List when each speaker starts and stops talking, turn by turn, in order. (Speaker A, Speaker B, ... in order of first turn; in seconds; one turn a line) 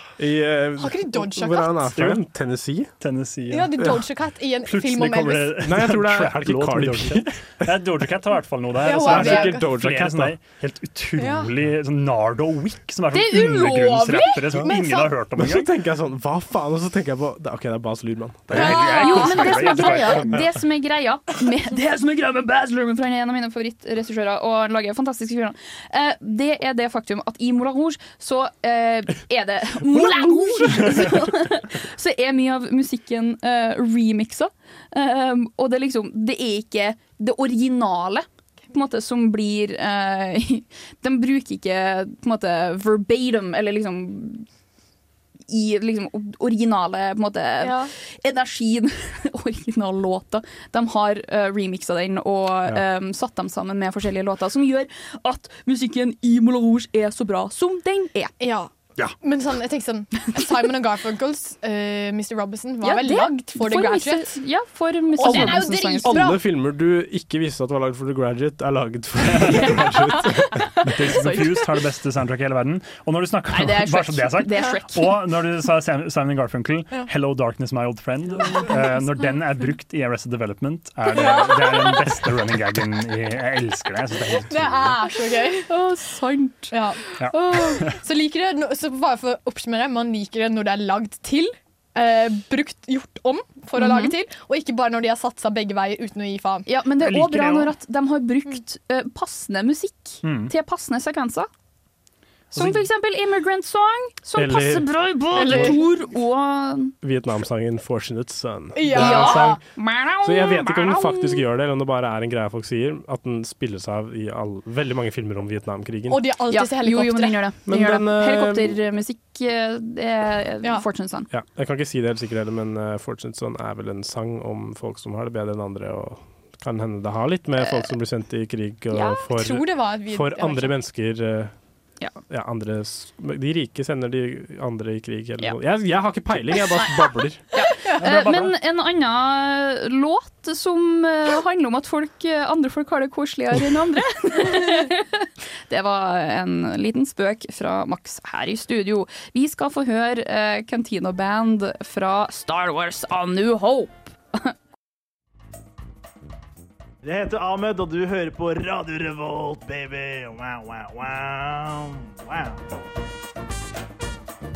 Speaker A: 0.2-2.9
Speaker B: 0.8-1.9
Speaker C: 1.9-2.2
Speaker C: 3.0-4.0
Speaker B: 3.5-5.7
Speaker C: 4.6-15.7
Speaker A: 5.6-7.7
Speaker B: 8.8-9.7
Speaker A: 8.8-10.4
Speaker B: 11.2-11.5
Speaker B: 13.1-15.1
Speaker D: 13.3-14.4
Speaker A: 15.3-18.8
Speaker C: 18.5-20.5
Speaker B: 18.5-20.1
Speaker D: 18.6-44.5
Speaker C: 30.1-30.9
Speaker D: 45.5-58.3
Speaker B: 47.6-47.9
Speaker B: 58.4-64.3
Speaker D: 62.8-66.2
Speaker B: 65.2-66.4
Speaker A: 65.3-70.6
Speaker D: 69.4-71.7
Speaker C: 70.8-85.0
Speaker D: 73.5-75.3
Speaker B: 81.1-82.2
Speaker B: 84.4-85.7
Speaker D: 85.4-87.8
Speaker B: 86.7-96.7
Speaker C: 87.2-87.9
Speaker D: 93.8-94.1
Speaker D: 96.7-101.5
Speaker C: 97.0-97.7
Speaker C: 100.2-100.5
Speaker C: 102.5-102.8
Speaker D: 102.5-106.9
Speaker A: 104.3-105.8
Speaker B: 105.3-105.8
Speaker A: 107.0-109.6
Speaker B: 108.8-109.6
Speaker D: 108.9-111.4
Speaker A: 110.2-116.2
Speaker B: 116.1-117.4
Speaker D: 116.5-121.3
Speaker A: 117.7-118.8
Speaker A: 121.3-131.5
Speaker D: 127.6-127.8
Speaker D: 128.9-129.2
Speaker B: 129.2-130.7
Speaker A: 132.3-137.4
Speaker D: 137.5-154.5
Speaker C: 138.0-138.5
Speaker E: 157.0-162.6